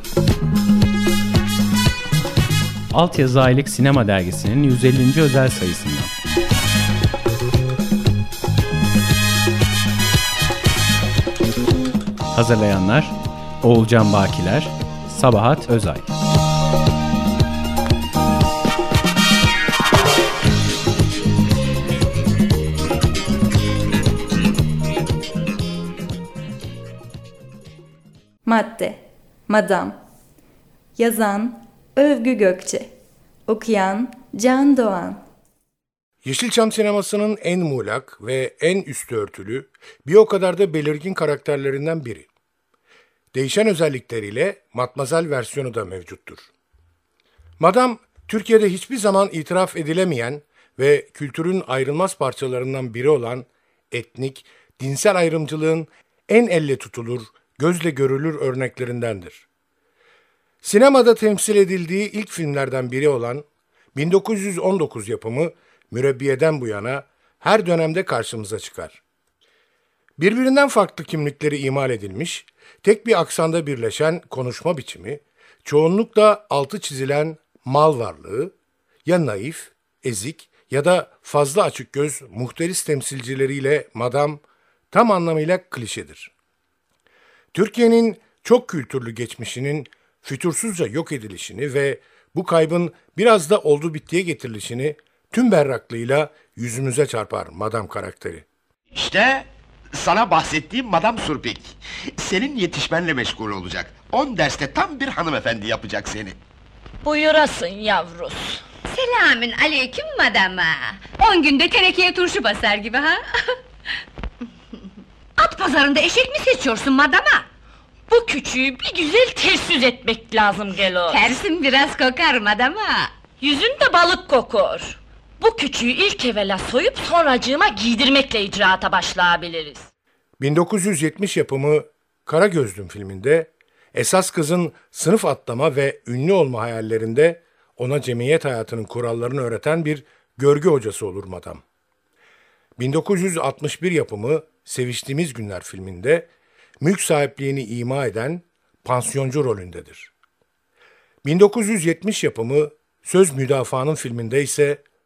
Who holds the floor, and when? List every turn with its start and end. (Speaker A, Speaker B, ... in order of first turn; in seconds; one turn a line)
Speaker A: 2.9-6.1
Speaker A: 12.3-16.1
Speaker B: 28.4-30.0
Speaker B: 31.0-32.9
Speaker B: 33.5-35.2
Speaker C: 36.2-42.3
Speaker C: 43.3-46.5
Speaker C: 47.6-59.5
Speaker C: 60.6-69.0
Speaker C: 70.2-78.5
Speaker C: 79.0-86.3
Speaker C: 87.5-98.5
Speaker D: 98.9-106.4
Speaker E: 107.0-108.6
Speaker F: 108.9-113.2
Speaker F: 115.4-117.5
Speaker E: 118.1-121.3
Speaker F: 121.1-123.2
Speaker E: 123.4-129.9
Speaker C: 130.4-141.6
Speaker C: 142.8-146.3
Speaker C: 146.8-150.1
Speaker C: 151.2-154.8